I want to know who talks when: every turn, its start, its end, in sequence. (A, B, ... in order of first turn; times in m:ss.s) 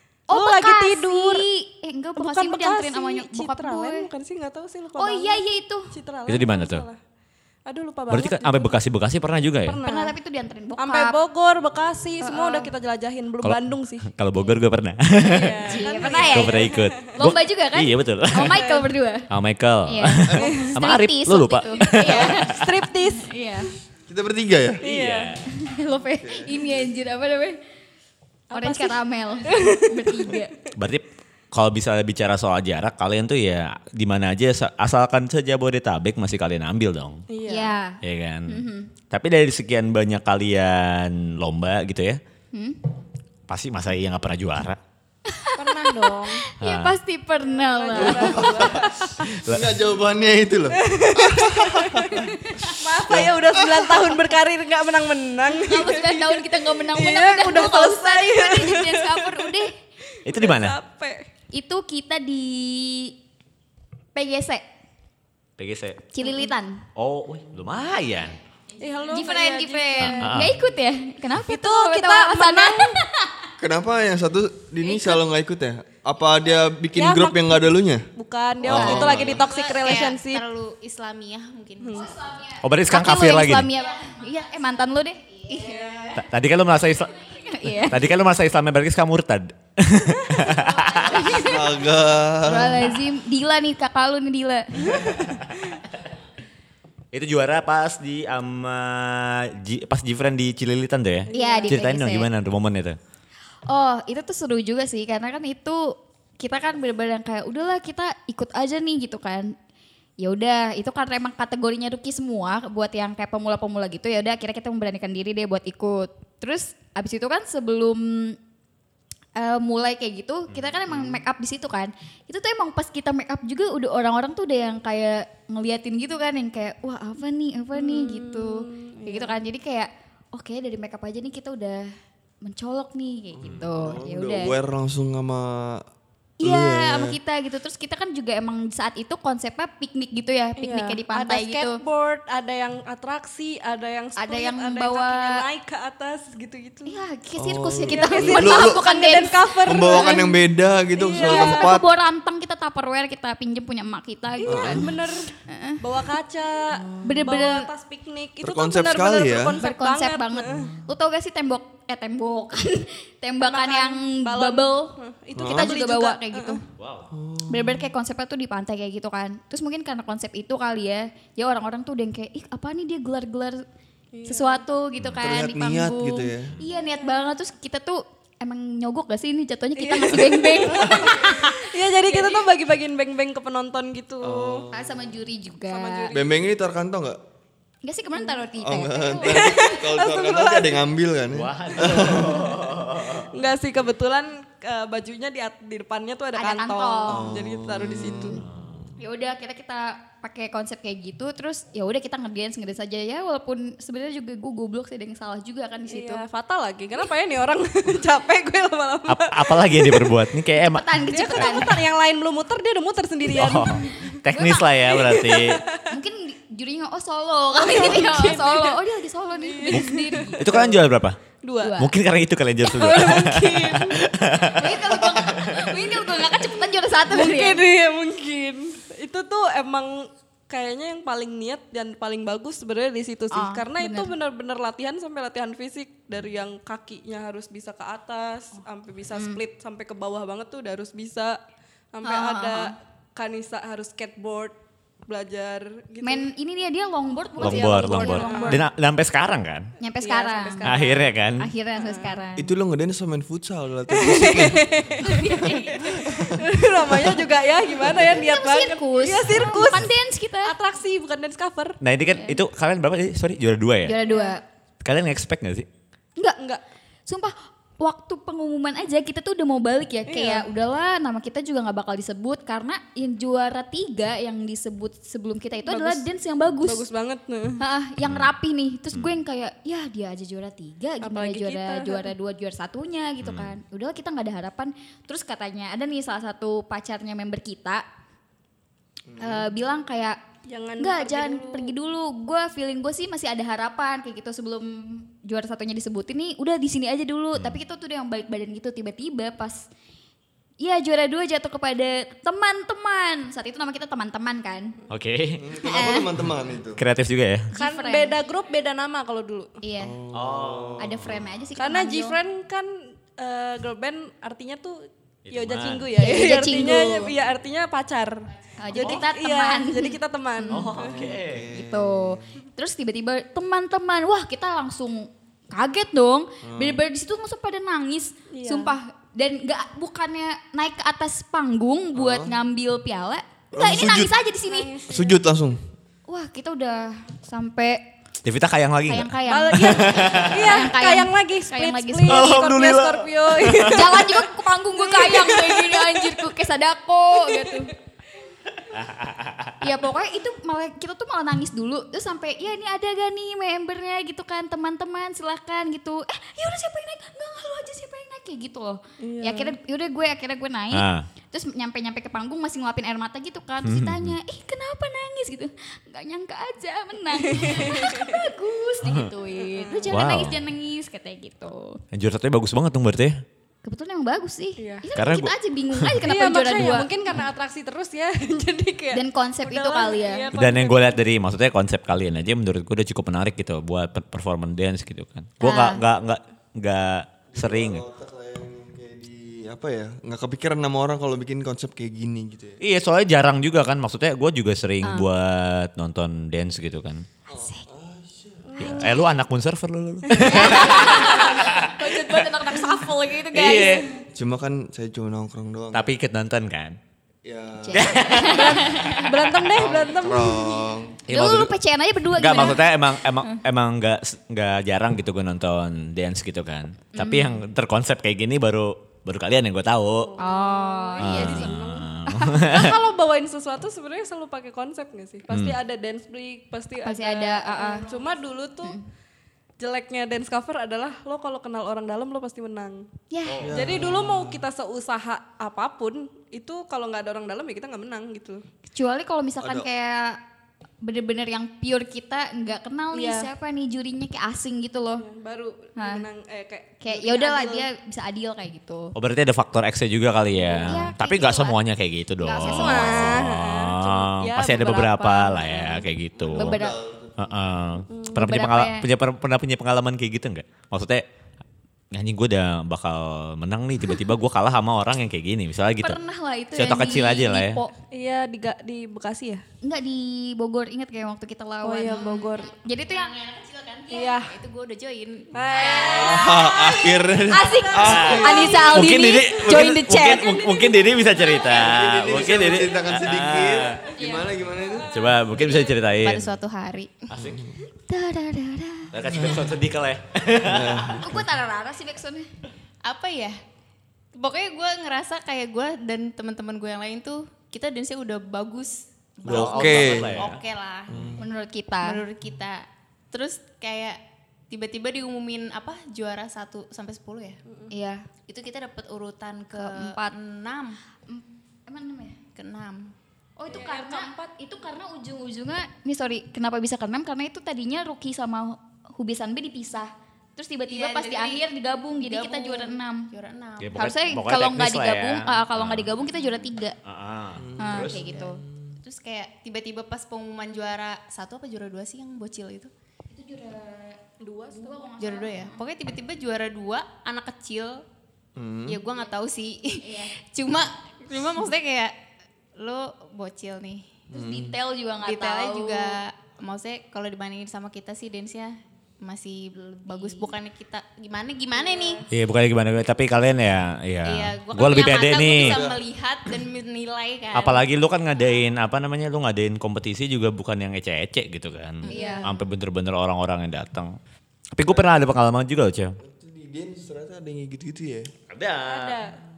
0:00.3-0:04.1 A
0:00.3-0:01.5 B
0:02.2-0:07.0 B
0:05.0-0:05.9 A
0:06.3-0:06.8 C
0:07.6-0:08.8 B
0:08.1-0:09.8 C
0:09.6-0:10.1 B
0:09.8-0:11.2 A
0:10.8-0:14.1 B
0:12.2-0:12.7 A
0:13.4-0:18.6 C
0:15.2-0:17.1 B
0:15.6-0:19.3 A
0:18.5-0:18.9 B
0:19.3-0:22.7 C
0:19.9-0:23.7 A
0:20.4-0:20.8 B
0:21.8-0:23.3 B
0:24.1-0:24.8 D
0:24.8-0:25.3 B
0:24.8-0:25.4 C
0:25.5-0:27.6 A
0:26.2-0:26.7 D
0:28.5-0:30.4 B
0:28.5-0:30.5 A
0:30.7-0:37.2 C
0:37.3-0:37.7 B
0:37.4-0:38.9 A
0:38.0-0:42.2 C
0:42.5-0:42.8 A
0:43.5-0:44.8 C
0:45.3-0:49.1 A
0:45.6-0:46.4 B
0:46.6-0:47.0 C
0:47.4-0:48.9 B
0:48.0-0:48.7 D
0:49.3-0:49.6 C
0:49.4-0:52.2 D
0:50.7-0:59.6 B
0:52.2-0:52.8 A
0:53.1-0:53.9 D
0:55.6-0:59.7 A
1:00.2-1:01.3 B
1:00.2-1:00.8 C
1:01.5-1:03.1 A
1:04.1-1:04.6 A
1:05.6-1:06.1 C
1:06.1-1:06.9 A
1:07.0-1:08.4 C
1:08.8-1:10.4 B
1:09.1-1:13.5 A
1:10.0-1:10.5 C
1:11.4-1:13.0 B
1:13.6-1:18.1 D
1:14.8-1:15.2 A
1:16.9-1:20.4 B
1:18.6-1:19.4 D
1:18.6-1:19.1 A
1:19.2-1:22.1 E
1:21.8-1:22.1 B
1:21.9-1:26.1 A
1:22.6-1:23.7 C
1:25.5-1:26.1 E
1:25.6-1:26.1 B
1:26.1-1:27.1 C
1:27.2-1:28.1 A
1:27.7-1:31.3 C
1:30.5-1:31.8 A
1:31.3-1:33.0 D
1:32.4-1:35.2 A
1:37.1-1:43.0 C
1:41.3-1:41.8 B
1:41.3-1:42.3 A
1:43.7-1:49.5 A
1:50.2-1:58.4 A
1:59.4-2:11.9 A
2:07.7-2:09.4 B
2:12.4-2:14.6 A
2:13.5-2:15.8 D
2:16.4-2:21.8 A
2:16.4-2:17.2 D
2:20.6-2:27.0 B
2:24.2-2:25.4 A
2:26.9-2:30.4 A
2:27.4-2:28.8 D
2:27.9-2:30.3 B
2:29.6-2:31.9 D
2:30.9-2:31.7 B
2:31.2-2:34.9 A
2:34.4-2:40.7 B
2:34.5-2:34.9 D
2:35.5-2:35.8 A
2:37.0-2:37.7 A
2:38.4-2:39.6 D
2:39.6-2:46.6 A
2:43.4-2:46.6 B
2:45.4-2:45.7 D
2:46.8-2:47.1 C
2:47.1-2:47.9 D
2:47.5-2:53.6 A
2:54.1-2:54.6 B
2:54.2-3:02.5 A
2:55.2-2:56.5 D
2:59.8-3:04.6 B
3:04.2-3:05.1 D
3:04.7-3:06.1 A
3:05.7-3:06.4 B
3:06.1-3:07.2 D
3:07.8-3:09.8 A
3:08.6-3:12.4 D
3:09.2-3:10.9 B
3:11.3-3:13.3 C
3:13.3-3:18.4 B
3:16.4-3:17.3 A
3:17.1-3:18.4 D
3:18.4-3:18.8 C
3:19.0-3:26.2 A
3:25.9-3:30.1 B
3:29.1-3:31.6 C
3:30.6-3:31.7 A
3:31.1-3:34.1 B
3:33.3-3:35.6 C
3:33.8-3:34.9 A
3:34.9-3:35.8 B
3:35.9-3:40.6 A
3:37.6-3:38.8 B
3:39.4-3:40.7 B
3:40.4-3:41.2 C
3:41.4-3:41.8 B
3:41.6-3:41.9 A
3:41.8-3:45.8 C
3:42.6-3:44.0 B
3:44.5-3:47.6 A
3:47.1-4:01.4 B
3:53.3-3:54.1 A
3:59.1-3:59.4 A
4:01.9-4:04.5 B
4:02.0-4:02.7 A
4:05.1-4:06.3 B
4:06.0-4:08.6 A
4:07.4-4:09.7 C
4:07.4-4:08.6 B
4:09.8-4:10.7 A
4:10.0-4:11.1 B
4:10.6-4:11.5 C
4:11.4-4:12.5 A
4:11.8-4:12.2 B
4:12.4-4:15.0 D
4:13.9-4:19.9 B
4:15.0-4:16.0 A
4:15.8-4:17.2 D
4:18.0-4:20.5 A
4:20.4-4:21.8 B
4:21.8-4:24.0 C
4:22.1-4:22.4 A
4:23.8-4:24.4 A
4:24.0-4:24.3 B
4:24.8-4:25.7 C
4:27.1-4:36.8 A
4:30.1-4:30.5 B
4:35.6-4:36.0 B
4:36.6-4:37.6 B
4:37.6-4:47.8 A
4:38.0-4:38.3 C
4:41.0-4:42.1 B
4:43.2-4:43.5 C
4:49.1-4:49.5 D
4:49.2-4:50.2 A
4:50.4-4:51.7 B
4:50.8-4:59.7 A
5:00.6-5:04.7 A
5:04.9-5:05.5 C
5:05.4-5:06.8 D
5:05.6-5:06.1 A
5:06.8-5:07.5 C
5:07.5-5:08.2 A
5:07.6-5:09.6 B
5:09.6-5:10.0 A
5:09.8-5:11.0 D
5:10.1-5:10.9 C
5:10.8-5:12.2 A
5:11.6-5:21.0 B
5:15.2-5:15.9 C
5:16.0-5:17.1 A
5:18.6-5:20.7 A
5:20.5-5:21.5 C
5:20.8-5:22.3 D
5:21.5-5:34.7 A
5:26.4-5:26.8 D
5:28.3-5:28.7 B
5:31.9-5:32.4 D
5:33.5-5:34.1 D
5:34.5-5:35.2 B
5:34.9-5:35.6 D
5:36.1-5:37.8 A
5:38.2-5:40.4 C
5:38.9-5:42.4 A
5:39.3-5:46.2 B
5:42.1-5:43.9 C
5:43.6-5:47.7 A
5:47.2-5:47.7 B
5:48.7-5:49.6 C
5:49.6-6:11.8 A
5:59.0-5:59.5 B
6:00.7-6:01.1 C
6:03.6-6:04.1 C
6:07.2-6:08.2 B
6:09.4-6:09.9 B
6:09.9-6:10.4 C
6:11.9-6:13.2 C
6:13.6-6:16.9 A
6:14.6-6:14.8 B
6:14.9-6:16.0 C
6:16.0-6:21.0 B
6:18.9-6:20.3 A
6:20.3-6:27.8 C
6:25.4-6:25.7 E
6:25.4-6:25.8 A
6:27.3-6:32.6 D
6:32.6-6:37.0 C
6:37.3-6:38.6 D
6:37.4-6:37.6 A
6:38.4-6:39.0 B
6:38.6-6:41.8 C
6:40.1-6:41.3 B
6:40.2-6:43.9 A
6:43.3-6:43.9 C
6:44.1-6:45.9 D
6:45.7-6:46.8 C
6:47.2-6:48.0 D
6:47.6-6:49.0 A
6:47.7-6:49.5 C
6:48.2-6:50.7 B
6:49.5-6:51.0 D
6:51.1-6:51.5 C
6:51.1-6:52.7 A
6:52.1-7:00.2 C
6:56.9-6:57.4 A
7:00.1-7:01.9 B
7:00.2-7:02.6 A
7:01.0-7:02.8 C
7:02.4-7:08.8 B
7:05.3-7:05.6 C
7:06.8-7:08.0 A
7:09.6-7:12.9 B
7:13.1-7:13.5 A
7:13.4-7:14.4 D
7:13.4-7:18.4 B
7:18.7-7:20.2 A
7:19.4-7:19.7 D
7:20.8-7:25.0 A
7:22.9-7:23.3 B
7:25.0-7:27.6 B
7:25.8-7:26.0 A
7:26.8-7:28.9 A
7:28.9-7:36.6 C
7:30.4-7:30.9 B
7:30.6-7:31.6 A
7:32.2-7:33.2 A
7:32.4-7:35.8 B
7:36.2-7:37.3 D
7:36.3-7:36.7 A
7:37.2-7:41.0 C
7:37.9-7:38.2 B
7:38.1-7:38.8 A
7:41.9-7:46.0 C
7:45.8-7:47.7 A
7:46.5-7:47.6 C
7:47.9-7:49.4 B
7:49.6-7:53.1 A
7:51.6-7:52.5 B
7:52.7-7:56.4 E
7:53.9-7:54.3 B
7:55.3-7:59.6 B
7:55.9-7:58.6 D
7:57.3-8:00.4 A
7:57.8-8:03.8 C
8:00.2-8:01.6 B
8:01.5-8:04.9 D
8:04.0-8:04.2 A
8:04.6-8:05.6 B
8:04.9-8:06.3 C
8:05.9-8:07.1 E
8:07.1-8:07.4 C
8:07.2-8:07.5 D
8:07.9-8:08.9 A
8:08.9-8:11.0 C
8:10.4-8:11.2 D
8:11.0-8:12.3 A
8:12.8-8:13.4 E
8:14.1-8:21.1 E
8:19.2-8:20.2 D
8:19.2-8:20.4 C
8:20.9-8:21.2 D
8:21.2-8:22.0 A
8:21.8-8:27.4 E
8:27.5-8:27.7 B
8:27.7-8:28.1 A
8:28.3-8:30.8 E
8:29.5-8:30.1 A
8:31.1-8:32.2 A
8:32.3-8:32.9 E
8:33.4-8:43.1 A
8:33.5-8:34.2 B
8:40.7-8:43.9 E
8:43.6-8:45.9 C
8:43.7-8:46.8 A
8:46.8-8:48.2 C
8:47.4-8:48.7 D
8:47.6-8:48.4 A
8:48.8-8:52.7 E
8:53.1-8:55.6 A
8:54.2-8:54.8 B
8:55.0-8:57.8 E
8:58.4-8:58.8 D
8:58.7-9:01.9 E
8:59.8-9:00.1 A
9:02.6-9:03.9 E
9:04.1-9:04.6 D
9:04.1-9:06.0 A
9:05.0-9:12.0 E
9:09.9-9:10.3 A
9:11.5-9:12.0 B
9:12.1-9:15.6 C
9:14.0-9:17.6 E
9:15.2-9:15.8 D
9:17.3-9:23.9 C
9:21.8-9:22.3 E
9:21.9-9:22.3 A
9:21.9-9:22.2 B
9:24.5-9:26.0 C
9:24.7-9:25.0 D
9:26.0-9:28.1 D
9:28.3-9:29.0 C
9:28.7-9:29.2 B